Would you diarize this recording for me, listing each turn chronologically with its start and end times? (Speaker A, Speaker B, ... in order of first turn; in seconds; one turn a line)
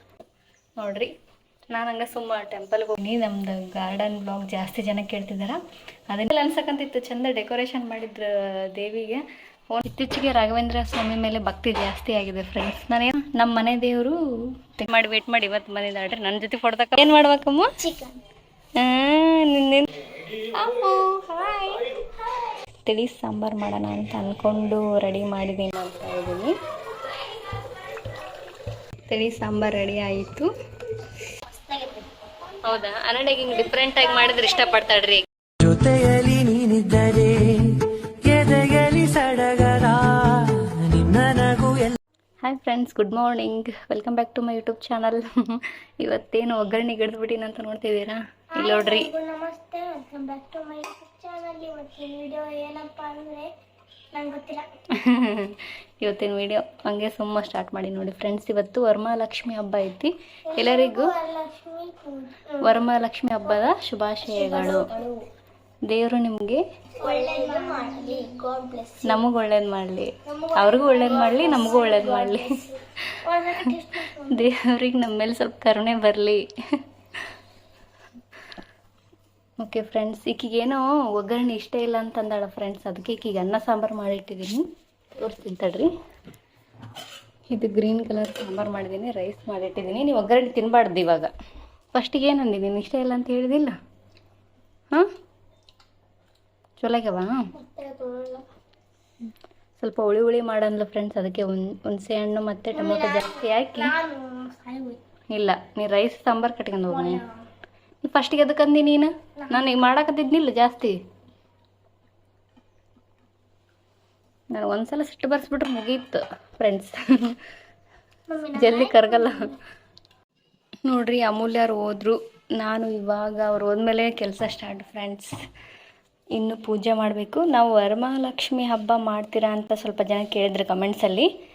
Speaker A: 0.8-1.1
Speaker A: 1.7-5.6
Speaker A: 6.1-14.2
Speaker A: 14.8-17.7
Speaker B: 17.8-18.2
Speaker A: 18.8-19.9
Speaker A: 20.6-21.8
Speaker A: 22.9-26.5
Speaker A: 29.1-30.5
Speaker B: 31.5-32.0
Speaker A: 32.6-35.3
Speaker C: 35.6-42.0
Speaker A: 42.4-49.1
Speaker B: 48.6-53.5
Speaker B: 54.1-54.7
Speaker A: 54.9-61.1
Speaker B: 60.5-62.7
Speaker A: 62.6-64.9
Speaker B: 64.3-65.1
Speaker A: 65.9-66.6
Speaker B: 67.0-69.2
Speaker A: 69.0-72.5
Speaker B: 70.3-72.6
Speaker B: 73.3-74.5
Speaker A: 73.5-76.5
Speaker A: 79.6-84.6
Speaker A: 85.2-85.9
Speaker A: 87.5-91.3
Speaker A: 91.9-93.7
Speaker A: 96.8-97.3
Speaker B: 97.6-98.4
Speaker A: 99.8-104.0
Speaker B: 102.8-105.0
Speaker A: 105.3-107.2
Speaker B: 106.9-107.3
Speaker A: 108.0-110.9
Speaker A: 114.5-117.4
Speaker B: 118.3-119.3
Speaker A: 118.5-119.5
Speaker A: 120.9-125.3
Speaker A: 126.3-131.3